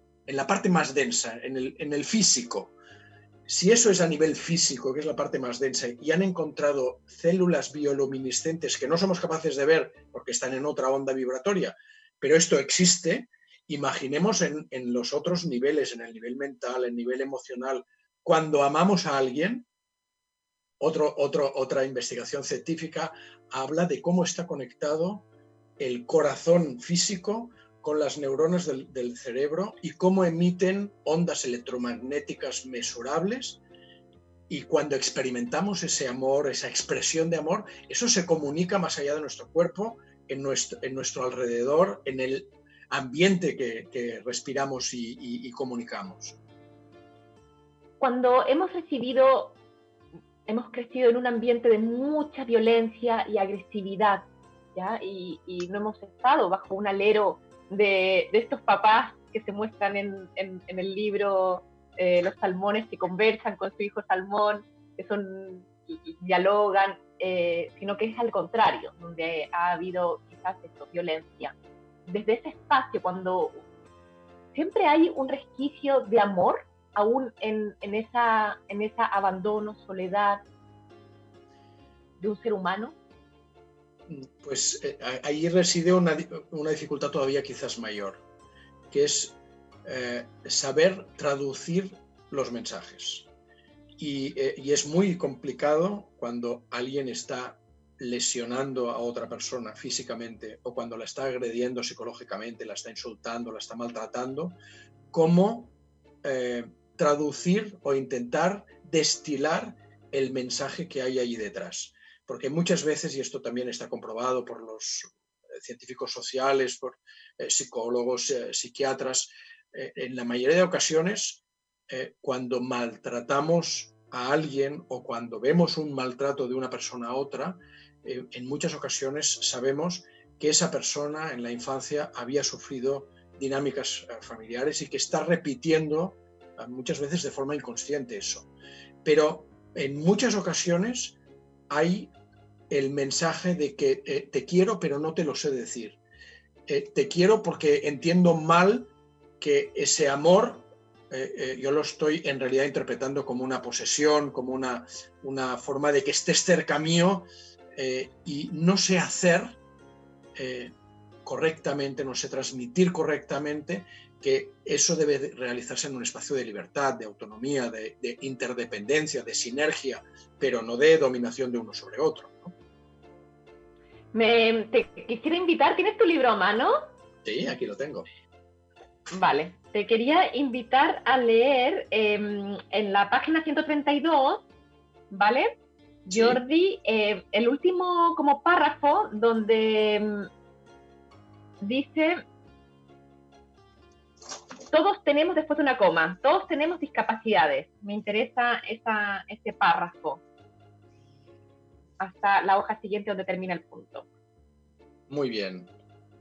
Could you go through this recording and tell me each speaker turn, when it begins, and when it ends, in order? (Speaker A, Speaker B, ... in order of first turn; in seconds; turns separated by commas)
Speaker A: 0.2-2.7, Speaker A: 3.5-19.7, Speaker A: 20.8-25.2, Speaker A: 25.8-33.6, Speaker A: 34.5-46.4, Speaker B: 48.0-49.5, Speaker B: 50.5-71.5, Speaker B: 72.1-73.6, Speaker B: 74.5-80.4, Speaker B: 82.2-82.9, Speaker A: 84.1-88.2, Speaker A: 88.9-93.3, Speaker A: 94.0-104.5, Speaker A: 105.1-138.5, Speaker A: 139.0-141.2, Speaker A: 141.7-142.1, Speaker A: 142.7-146.0, Speaker A: 146.7-159.6, Speaker A: 160.3-160.7, Speaker A: 161.2-172.5, Speaker B: 174.1-176.8, Speaker A: 177.2-178.1, Speaker B: 179.1-184.4, Speaker B: 185.1-185.5, Speaker B: 186.1-190.3, Speaker A: 186.1-186.4, Speaker B: 191.6-192.2, Speaker B: 194.7-200.2, Speaker B: 202.0-204.1, Speaker A: 205.1-205.7